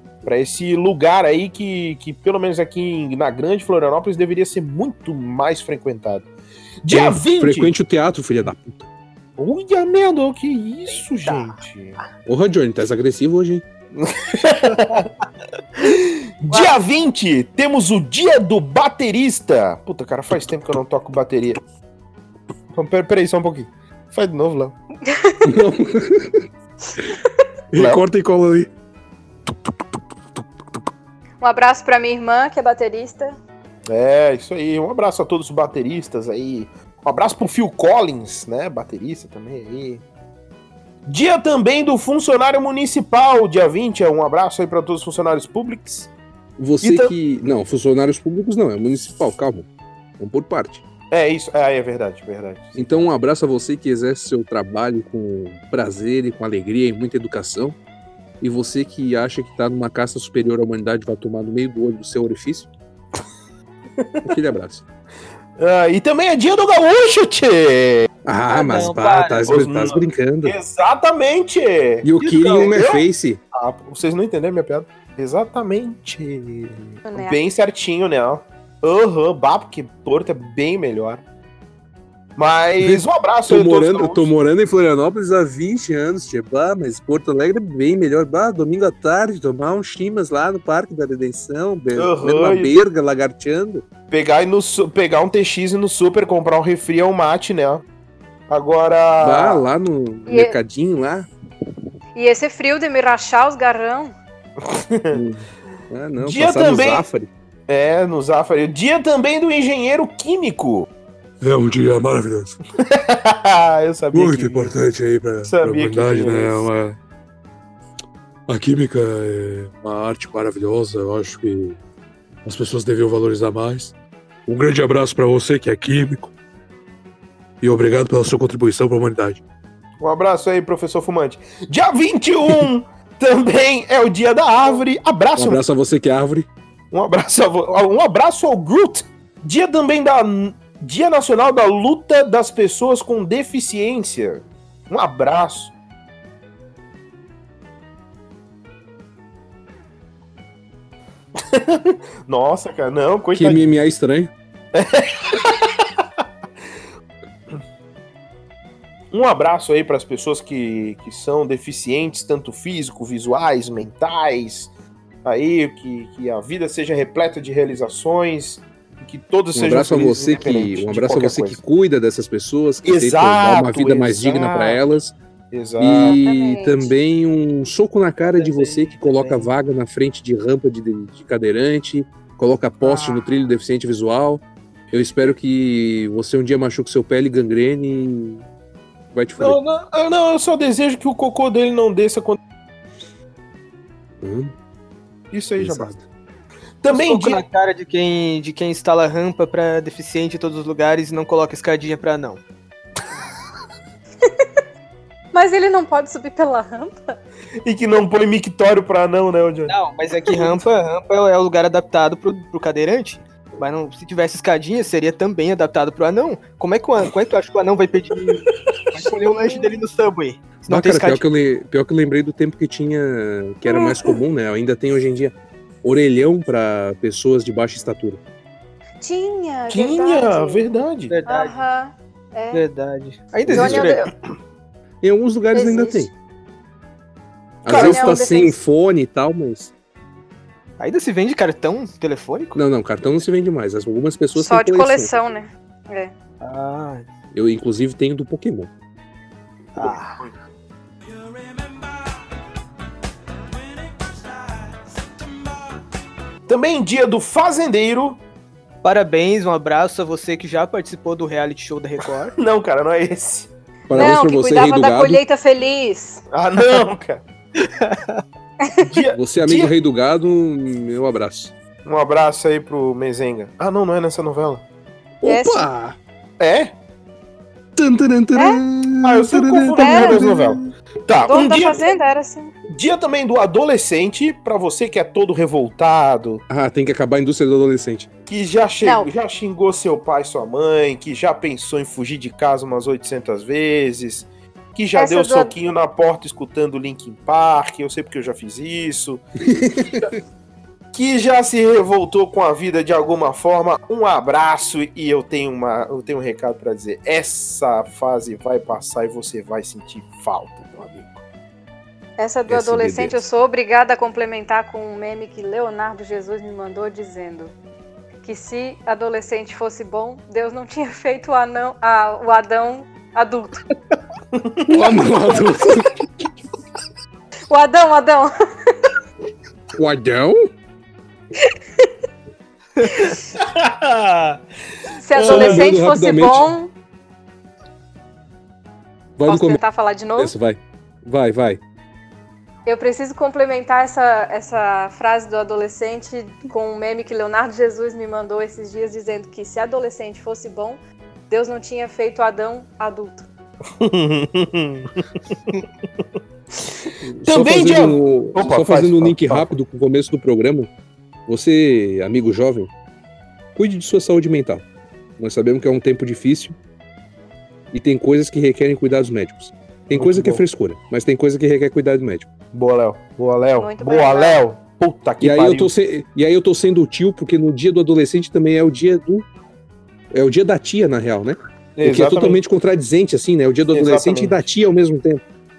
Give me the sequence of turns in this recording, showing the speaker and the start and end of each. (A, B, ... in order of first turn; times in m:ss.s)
0:00.2-0:06.3 A
0:06.8-0:07.7 A
0:06.9-0:08.9 B
0:09.4-0:12.0 A
0:11.2-0:11.5 C
0:12.2-0:13.6 B
0:14.0-0:15.1 A
0:15.8-0:21.6 A
0:22.7-0:24.7 A
0:25.1-0:25.5 D
0:25.4-0:26.4 B
0:27.7-0:28.7 B
0:27.7-0:28.0 A
0:29.5-0:29.7 B
0:31.4-0:33.4 D
0:33.9-0:40.0 A
0:41.1-0:46.1 A
0:46.6-0:49.7 B
0:46.8-0:47.1 A
0:50.2-0:50.8 B
0:51.1-0:53.0 A
0:52.8-0:57.8 B
0:58.4-1:02.7 B
1:04.0-1:04.3 A
1:04.2-1:04.8 B
1:05.6-1:08.1 A
1:08.2-1:10.6 B
1:08.5-1:09.6 C
1:09.4-1:12.1 A
1:12.0-1:13.4 B
1:12.2-1:12.8 C
1:12.6-1:21.2 A
1:17.0-1:17.4 D
1:22.4-1:24.3 A
1:22.8-1:33.8 B
1:32.0-1:32.7 A
1:34.1-1:37.8 A
1:38.5-1:39.6 A
1:39.2-1:41.3 B
1:40.3-1:40.6 D
1:42.1-1:44.1 D
1:44.6-1:45.2 A
1:45.1-1:47.3 B
1:46.2-1:47.0 A
1:47.7-1:50.9 A
1:51.4-1:52.6 B
1:52.8-1:54.7 A
1:54.1-1:57.0 B
1:55.4-1:56.7 A
1:58.5-2:01.8 B
2:02.4-2:03.9 B
2:04.5-2:06.3 B
2:07.6-2:09.4 B
2:10.0-2:15.6 A
2:15.4-2:16.5 B
2:16.9-2:25.7 A
2:31.4-2:33.7 A
2:33.3-2:34.3 B
2:34.7-2:36.0 A
2:39.1-2:44.7 A
2:45.2-2:51.6 A
2:49.5-2:55.1 B
2:52.8-2:54.8 A
2:55.5-2:56.2 A
2:55.8-3:08.4 B
2:56.2-2:56.9 D
2:58.3-2:59.5 C
3:02.8-3:03.2 A
3:09.1-3:09.6 B
3:09.4-3:12.4 A
3:14.2-3:14.5 B
3:15.3-3:15.9 A
3:15.6-3:16.0 B
3:16.8-3:17.4 A
3:16.9-3:22.4 C
3:25.3-3:27.2 D
3:27.6-3:29.7 A
3:29.7-3:41.2 C
3:30.2-3:30.6 A
3:39.4-3:39.7 D
3:40.7-3:48.2 B
3:43.6-3:44.1 D
3:49.0-3:50.7 D
3:49.7-3:51.1 A
3:51.1-3:51.6 C
3:51.3-3:52.6 D
3:52.5-3:54.1 C
3:53.5-3:53.9 B
3:53.5-3:54.1 D
3:55.0-3:56.1 B
3:55.5-3:56.1 D
3:57.6-3:59.7 B
3:57.6-3:58.2 A
3:57.7-3:58.6 D
4:00.8-4:02.6 C
4:02.5-4:05.1 B
4:04.3-4:06.1 D
4:06.4-4:07.0 C
4:07.3-4:08.7 B
4:09.7-4:10.2 C
4:16.5-4:18.2 A
4:18.8-4:22.3 C
4:22.4-4:24.1 A
4:23.9-4:25.2 B
4:23.9-4:26.2 D
4:26.3-4:27.2 A
4:27.6-4:28.2 C
4:28.8-4:29.7 A
4:29.1-4:31.5 B
4:31.8-4:34.6 A
4:35.2-4:36.0 B
4:35.2-4:35.7 D
4:36.4-4:36.7 A
4:37.8-4:40.7 B
4:38.3-4:38.6 D
4:39.0-4:41.9 A
4:39.8-4:40.3 D
4:41.2-4:42.5 D
4:42.7-4:46.4 A
4:46.5-4:48.1 B
4:48.3-4:59.2 A
4:48.8-4:49.1 D
4:54.9-4:55.5 D
4:59.5-5:00.1 B
5:00.9-5:11.2 A
5:12.2-5:17.5 D
5:12.5-5:13.2 B
5:18.2-5:23.6 D
5:24.3-5:24.8 A
5:24.7-5:26.3 B
5:27.5-5:28.3 D
5:29.7-5:30.5 B
5:31.4-5:31.9 D
5:33.1-5:34.4 A
5:35.0-5:36.7 D
5:35.1-5:35.6 A
5:35.2-5:36.5 B
5:39.2-5:39.6 B
5:39.3-5:40.3 D
5:40.2-5:41.6 B
5:42.6-5:53.3 D
5:53.8-5:55.0 A
5:57.0-6:00.7 B
5:57.2-5:59.5 A
6:01.3-6:02.7 B
6:03.6-6:04.6 B
6:05.2-6:06.6 B
6:07.7-6:12.3 B
6:09.9-6:10.4 A
6:12.5-6:15.7 A
6:13.6-6:14.4 D
6:15.2-6:19.3 B
6:20.1-6:25.2 B
6:21.8-6:22.4 A
6:23.7-6:24.4 A